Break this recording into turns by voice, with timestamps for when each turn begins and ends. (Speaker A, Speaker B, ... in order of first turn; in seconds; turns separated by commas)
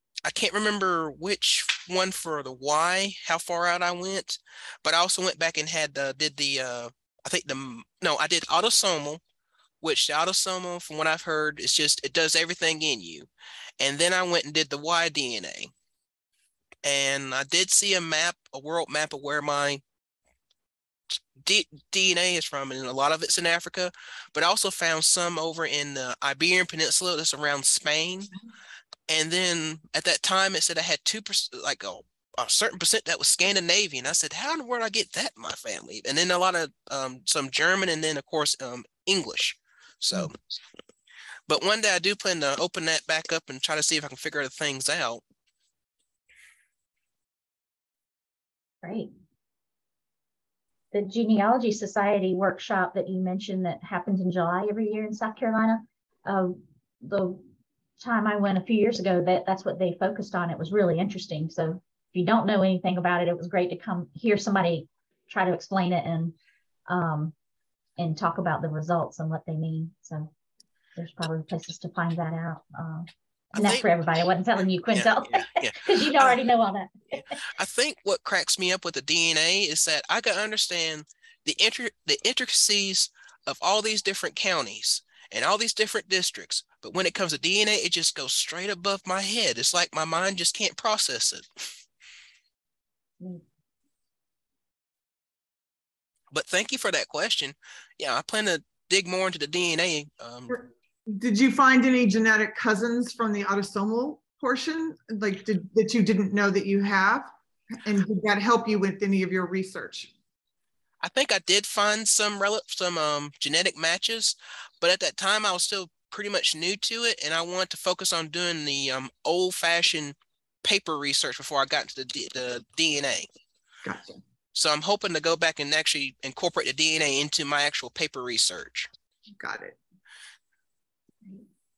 Speaker A: 0.2-9.2, Speaker A: 9.8-15.7, Speaker A: 16.8-19.8, Speaker A: 21.1-28.3, Speaker A: 29.1-40.4, Speaker A: 41.5-45.2, Speaker B: 48.8-49.1, Speaker B: 50.9-57.4, Speaker B: 58.0-66.3, Speaker B: 66.9-67.3, Speaker B: 68.0-70.3, Speaker B: 71.0-77.4, Speaker A: 73.5-73.8, Speaker A: 74.9-76.3, Speaker A: 77.1-91.5, Speaker A: 96.3-100.5, Speaker C: 100.5-107.3, Speaker C: 107.8-110.1, Speaker A: 111.0-123.3, Speaker C: 123.8-124.2, Speaker A: 124.5-128.9, Speaker C: 129.4-129.8